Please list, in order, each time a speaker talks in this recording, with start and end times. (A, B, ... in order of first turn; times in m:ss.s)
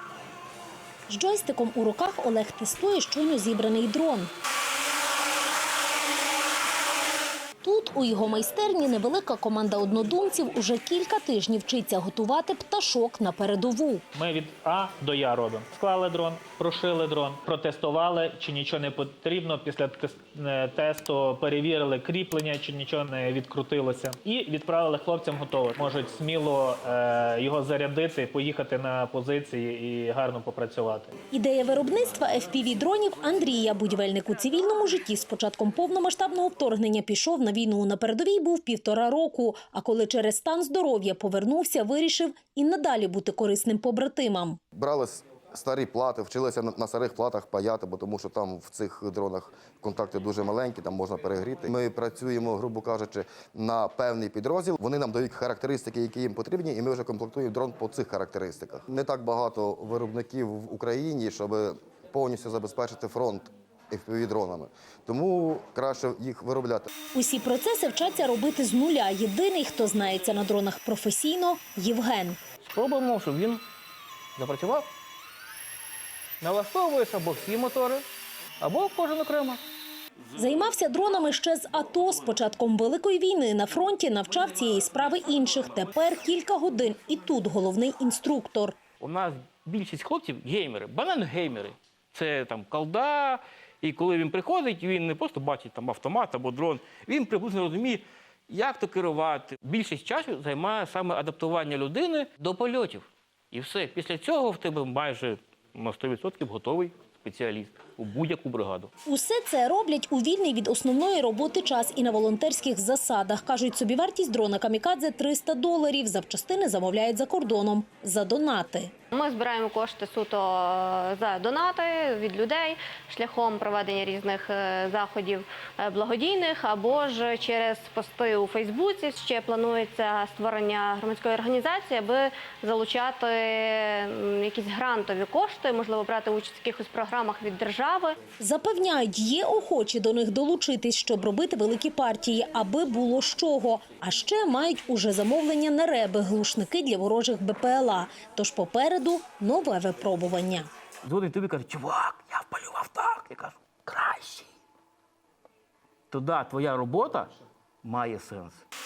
0:01.1-0:04.3 A
0:07.6-0:14.0 A
0:14.1-0:31.1 B
0:31.3-0:44.6 A
0:44.8-1:06.9 C
1:07.1-1:12.4 A
1:12.6-1:13.6 D
1:14.4-1:14.9 D
1:16.4-1:18.0 D
1:18.6-1:19.6 D
1:20.3-1:28.8 A
1:29.0-1:48.9 D
1:49.1-1:58.9 A
1:59.1-2:18.2 E
2:18.4-2:30.7 A
2:31.0-2:34.5 D
2:36.1-2:37.3 D
2:37.8-2:38.6 D